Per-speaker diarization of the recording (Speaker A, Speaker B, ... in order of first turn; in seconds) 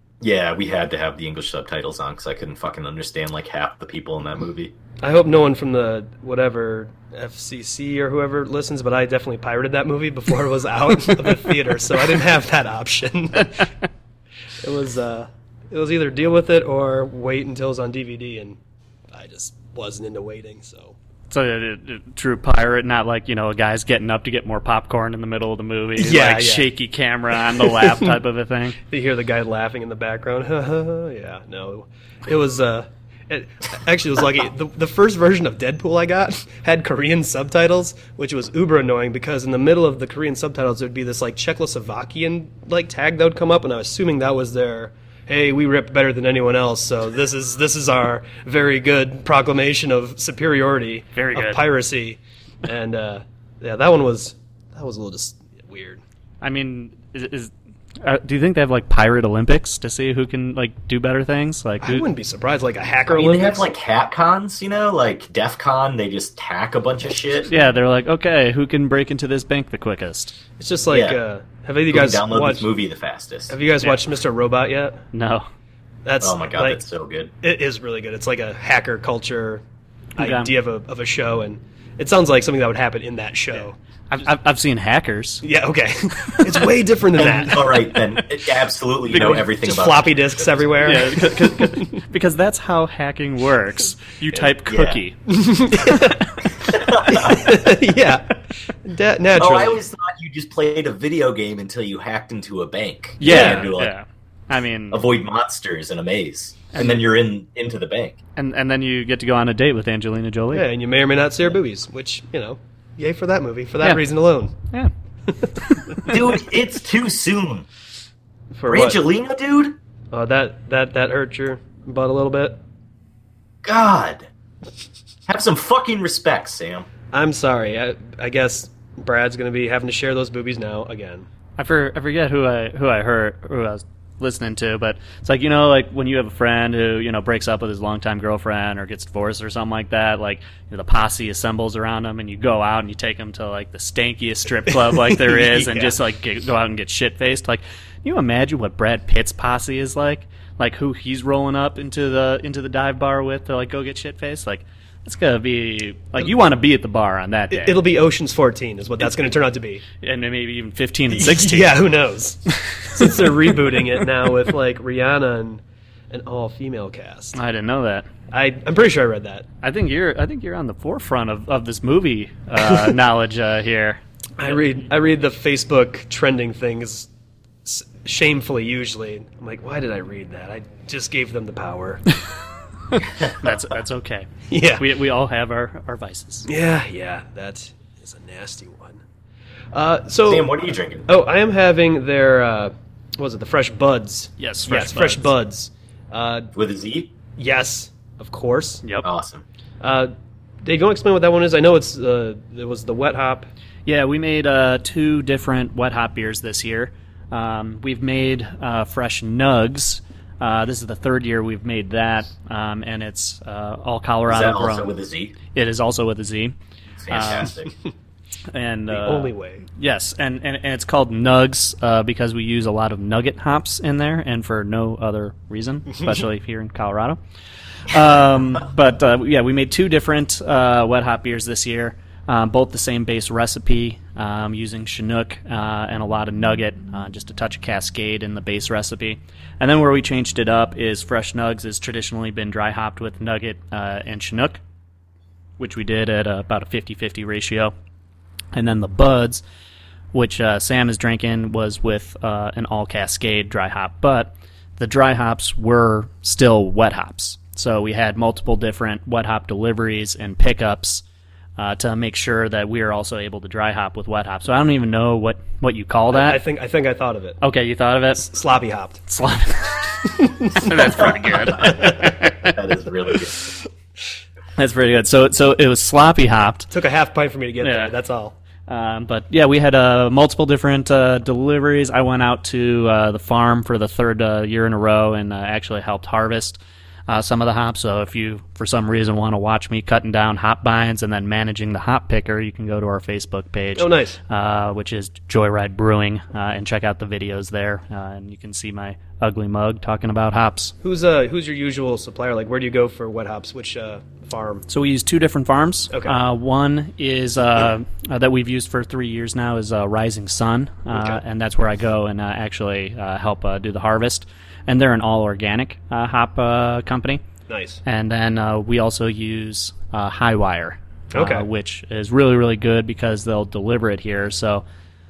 Speaker A: 0.2-4.7, 63.1-67.5, 70.9-71.2, 71.9-73.6, 76.2-77.3, 87.2-90.7, 94.6-95.0, 96.6-97.7, 99.4-103.9, 104.9-108.2, 116.0-117.7, 118.7-119.8, 123.6-124.3, 125.3-126.9, 183.1-183.4, 190.3-191.1, 196.5-197.1, 199.0-199.4, 214.3-215.4, 217.0-217.7, 271.2-273.5
Speaker B: 5.0-13.7, 14.6-21.0, 26.0-26.7, 27.3-28.2, 28.9-56.0, 61.8-63.7, 70.6-72.7, 73.5-75.0, 76.0-76.8, 77.4-79.6, 80.2-83.8, 85.4-87.8, 89.1-92.0, 95.3-96.3, 97.0-99.8, 103.2-103.7, 110.5-114.5, 118.5-119.0, 120.1-122.6, 127.1-131.3, 144.7-146.0, 157.5-159.8, 161.1-167.4, 168.3-169.5, 172.6-172.9, 174.4-177.1, 177.7-182.0, 184.5-184.9, 186.5-189.0, 189.7-190.5, 191.1-196.5, 197.4-198.8, 199.8-200.1, 200.6-203.5, 218.9-219.7, 266.1-267.4, 268.1-269.0, 270.0-272.1, 276.7-278.4, 293.8-294.2, 300.8-304.6, 305.9-306.2, 310.9-311.2, 317.5-317.8, 321.1-321.5
Speaker C: 21.3-28.8, 51.1-51.6, 56.4-62.1, 67.5-70.4, 75.1-75.5, 80.2-80.5, 84.1-85.5, 86.2-86.7, 90.8-95.2, 103.2-105.0, 106.7-107.0, 108.4-110.7, 115.6-116.2, 131.6-157.8, 160.0-161.8, 162.6-163.3, 167.3-168.1, 169.6-174.6, 182.9-186.5, 194.4-195.3, 203.9-214.9, 215.5-216.6, 217.1-217.5, 218.5-227.2, 227.9-244.6, 245.6-247.7, 248.5-249.4, 250.1-261.0, 261.6-266.4, 267.4-268.3, 269.1-272.6, 274.6-276.7, 277.6-277.9, 278.7-300.8, 304.7-317.2, 317.9-324.6